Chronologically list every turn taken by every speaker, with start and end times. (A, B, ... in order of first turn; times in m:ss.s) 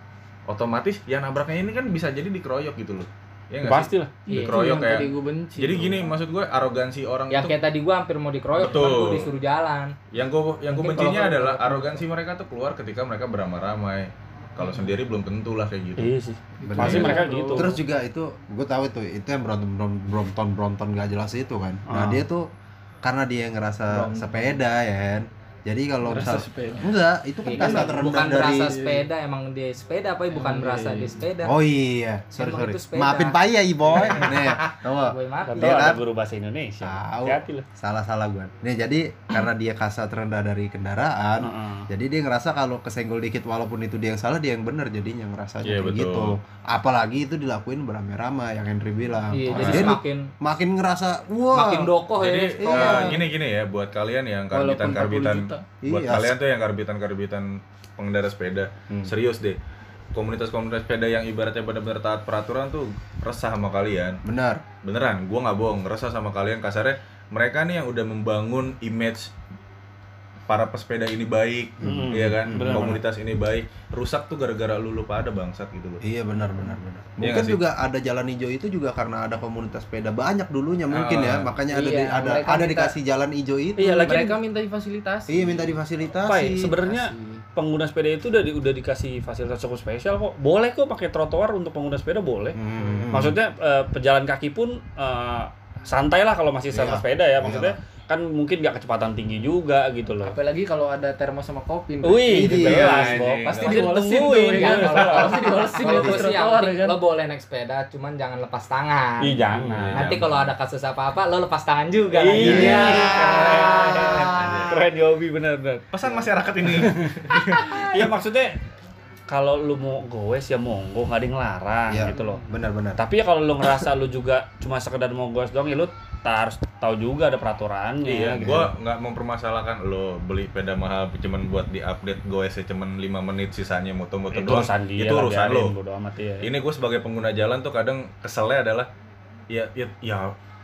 0:00.5-0:07.5 A
0:03.6-0:04.2 B
0:04.3-0:06.0 C
0:04.3-0:04.7 D
0:07.3-0:09.9 D
0:08.6-0:09.3 A
0:10.1-0:16.1 A
0:10.7-0:12.0 D
0:16.0-0:17.8 B
0:16.6-0:17.7 C
0:16.6-0:22.4 E
0:16.8-0:17.2 A
0:21.9-0:22.2 B
0:23.0-0:28.8 E
0:23.9-0:24.3 D
0:26.0-0:26.9 C
0:27.4-0:31.5 D
0:27.5-0:29.0 C
0:30.4-0:31.2 B
0:31.4-0:36.0 E
0:32.3-0:33.4 D
0:33.9-0:35.8 D
0:35.5-0:37.6 B
0:36.8-0:51.9 E
0:41.4-0:41.9 B
0:45.6-0:46.4 A
0:49.3-0:50.3 D
0:49.5-0:49.9 A
0:51.5-0:53.1 D
0:52.2-0:59.6 A
0:52.6-0:53.2 E
0:54.5-0:55.6 C
0:55.8-0:56.4 E
1:00.1-1:04.2 A
1:04.2-1:04.6 E
1:04.8-1:09.3 A
1:10.5-1:16.0 A
1:11.8-1:12.6 E
1:11.8-1:13.0 B
1:16.0-1:24.0 E
1:17.2-1:17.6 A
1:20.9-1:21.5 A
1:21.7-1:22.9 C
1:23.8-1:24.4 B
1:23.8-1:25.7 C
1:25.3-1:26.8 E
1:26.2-1:32.6 B
1:26.8-1:27.4 C
1:32.5-1:33.4 E
1:33.1-1:40.4 B
1:36.7-1:37.8 E
1:40.2-1:47.0 C
1:42.0-1:45.4 B
1:42.3-1:43.1 E
1:42.6-1:43.9 A
1:44.5-1:54.4 D
1:45.9-1:46.2 E
1:49.2-1:50.2 B
1:49.5-1:50.5 A
1:52.1-1:55.8 B
1:52.4-1:54.8 E
1:52.4-1:52.7 A
1:54.4-1:54.8 A
1:55.9-1:58.1 A
1:56.8-1:58.6 B
1:59.3-2:02.4 B
2:01.9-2:03.0 E
2:03.0-2:08.7 B
2:08.0-2:15.7 A
2:08.4-2:08.7 E
2:14.3-2:16.5 B
2:16.4-2:18.9 A
2:19.5-2:20.3 A